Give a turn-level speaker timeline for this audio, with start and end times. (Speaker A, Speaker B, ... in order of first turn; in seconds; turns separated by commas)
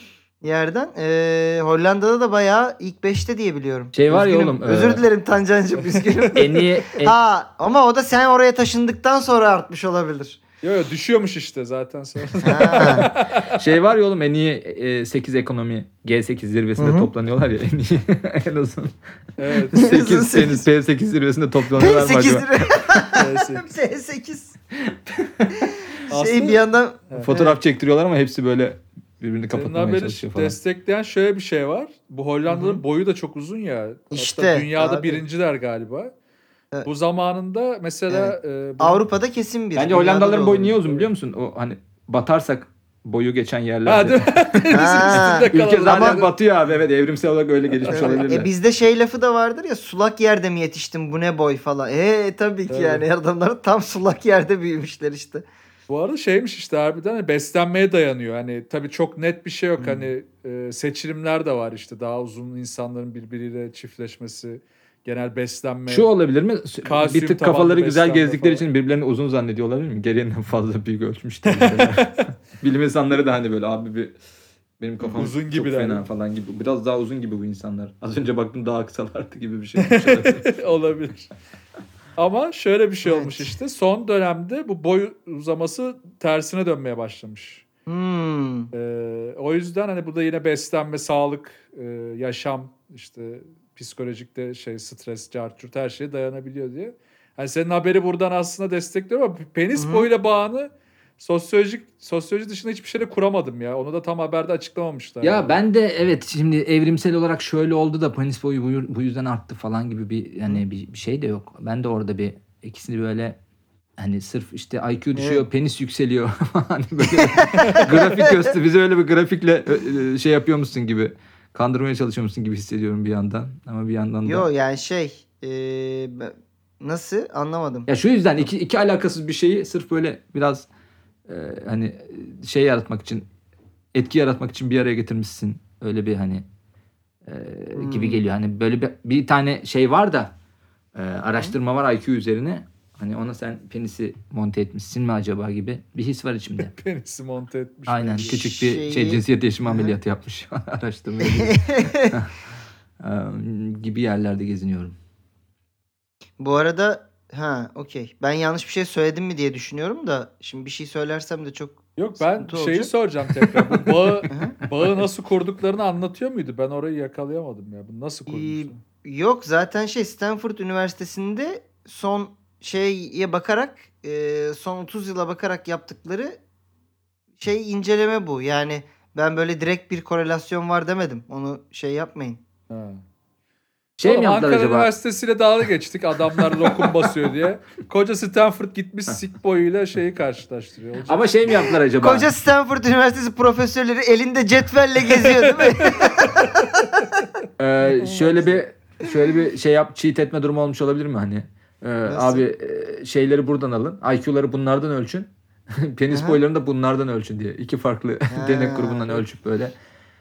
Speaker A: 0.4-10.4, Speaker B: 3.9-5.0, Speaker C: 5.9-6.2, Speaker B: 6.3-7.2, Speaker C: 10.6-13.5, Speaker A: 12.4-13.1, Speaker B: 13.4-18.9, Speaker A: 16.8-17.1, Speaker C: 19.4-19.9, Speaker B: 19.7-22.7, Speaker A: 19.7-20.6, Speaker A: 21.7-24.5, Speaker C: 23.1-23.6, Speaker B: 24.8-25.6, Speaker A: 25.6-27.6, Speaker C: 26.1-27.3, Speaker B: 27.2-30.6, Speaker C: 29.5-36.1, Speaker A: 32.5-32.8, Speaker A: 34.1-35.2, Speaker C: 36.8-39.0, Speaker A: 38.1-40.8, Speaker B: 39.8-48.5, Speaker C: 43.9-46.3, Speaker A: 44.7-46.2, Speaker A: 47.9-55.4, Speaker C: 52.7-53.0, Speaker C: 55.9-66.1, Speaker B: 65.9-74.1, Speaker C: 66.8-68.6, Speaker C: 71.4-72.3, Speaker B: 74.8-80.5, Speaker C: 75.1-76.0, Speaker C: 79.8-81.3, Speaker C: 82.2-87.6, Speaker A: 83.0-83.5, Speaker A: 87.9-88.7, Speaker C: 88.7-105.6, Speaker A: 99.8-100.1, Speaker B: 105.2-113.4, Speaker B: 114.0-124.5, Speaker A: 115.2-115.5, Speaker A: 117.2-118.4, Speaker A: 124.2-127.9, Speaker B: 127.9-130.7, Speaker B: 131.3-133.3, Speaker B: 133.9-136.4, Speaker B: 137.2-140.3, Speaker A: 137.7-138.2, Speaker B: 140.9-146.7, Speaker C: 146.7-148.4, Speaker B: 147.9-152.3, Speaker A: 148.2-149.9, Speaker A: 151.2-152.2, Speaker B: 153.0-154.9, Speaker A: 156.4-162.9, Speaker C: 162.0-168.8, Speaker A: 164.3-164.5, Speaker A: 168.3-176.4, Speaker A: 177.4-182.4, Speaker C: 182.7-183.0, Speaker B: 184.0-184.9, Speaker C: 184.0-191.2, Speaker B: 186.6-186.9, Speaker B: 191.0-192.3, Speaker A: 192.0-196.9, Speaker B: 197.6-209.7, Speaker C: 198.2-198.4, Speaker A: 202.1-202.4, Speaker A: 206.1-206.4, Speaker A: 208.3-209.3